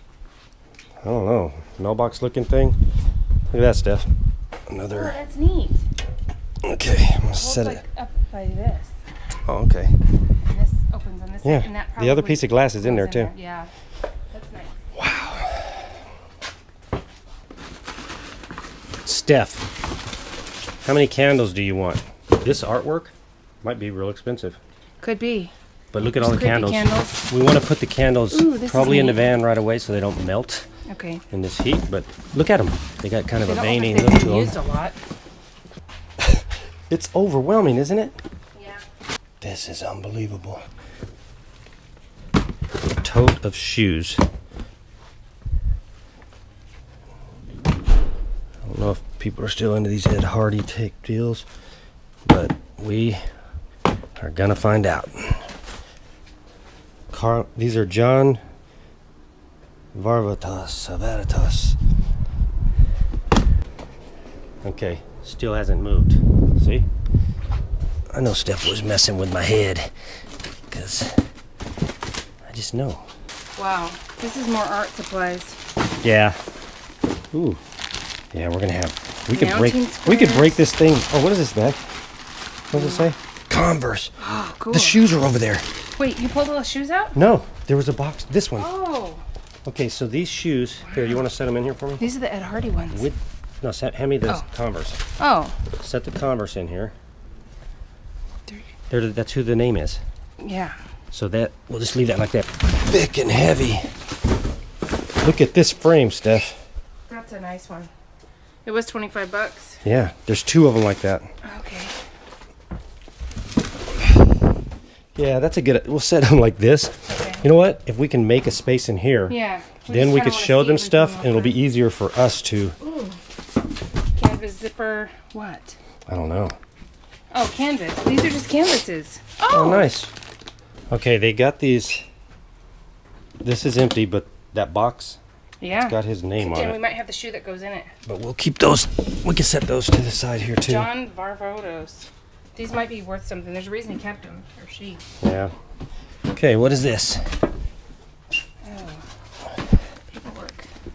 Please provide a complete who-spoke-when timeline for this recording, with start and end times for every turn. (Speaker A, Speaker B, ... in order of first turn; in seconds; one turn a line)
Speaker A: 1.0-2.8
Speaker A: 3.5-4.1
Speaker A: 4.7-5.2
Speaker B: 4.9-5.9
Speaker A: 6.6-7.8
Speaker B: 7.3-8.9
Speaker A: 9.5-10.0
Speaker B: 10.5-13.7
Speaker A: 11.4-13.3
Speaker B: 14.3-14.8
Speaker A: 14.9-15.9
Speaker A: 19.1-19.7
Speaker A: 20.8-24.6
Speaker B: 25.0-25.5
Speaker A: 25.9-30.7
Speaker B: 26.2-27.2
Speaker B: 28.3-29.3
Speaker B: 30.9-31.2
Speaker A: 31.3-34.5
Speaker B: 33.4-35.0
Speaker A: 36.2-38.2
Speaker B: 38.5-38.8
Speaker A: 39.4-40.7
Speaker A: 43.0-44.2
Speaker A: 48.6-51.5
Speaker A: 52.3-53.3
Speaker A: 54.2-55.5
Speaker A: 57.1-58.4
Speaker A: 59.9-61.8
Speaker A: 64.6-66.9
Speaker A: 68.1-69.9
Speaker A: 70.7-71.2
Speaker A: 72.5-73.1
Speaker B: 73.6-75.6
Speaker A: 76.0-76.4
Speaker A: 77.3-77.6
Speaker A: 78.3-81.8
Speaker B: 79.3-80.6
Speaker A: 82.7-84.1
Speaker B: 82.8-83.1
Speaker B: 84.2-85.0
Speaker A: 84.7-85.7
Speaker B: 86.0-87.2
Speaker A: 87.1-88.7
Speaker B: 88.6-89.2
Speaker A: 89.7-92.1
Speaker B: 90.8-91.2
Speaker B: 92.0-93.1
Speaker A: 92.9-95.0
Speaker B: 95.2-95.6
Speaker A: 95.7-97.0
Speaker A: 98.9-100.0
Speaker B: 100.4-100.8
Speaker A: 101.1-103.9
Speaker A: 105.2-106.6
Speaker B: 107.1-107.9
Speaker B: 108.7-109.8
Speaker A: 109.8-111.3
Speaker B: 111.4-112.0
Speaker A: 115.2-119.4
Speaker B: 117.1-117.4
Speaker B: 119.3-121.6
Speaker A: 119.9-122.8
Speaker B: 122.8-123.2
Speaker B: 124.2-125.8
Speaker A: 126.1-126.6
Speaker B: 127.3-129.9
Speaker A: 129.5-130.1
Speaker A: 130.9-132.1
Speaker A: 133.4-135.2
Speaker B: 135.6-137.9
Speaker A: 135.7-136.8
Speaker A: 138.1-140.9
Speaker B: 140.6-145.0
Speaker A: 145.2-145.5
Speaker A: 146.3-147.4
Speaker B: 148.6-149.1
Speaker B: 150.1-150.7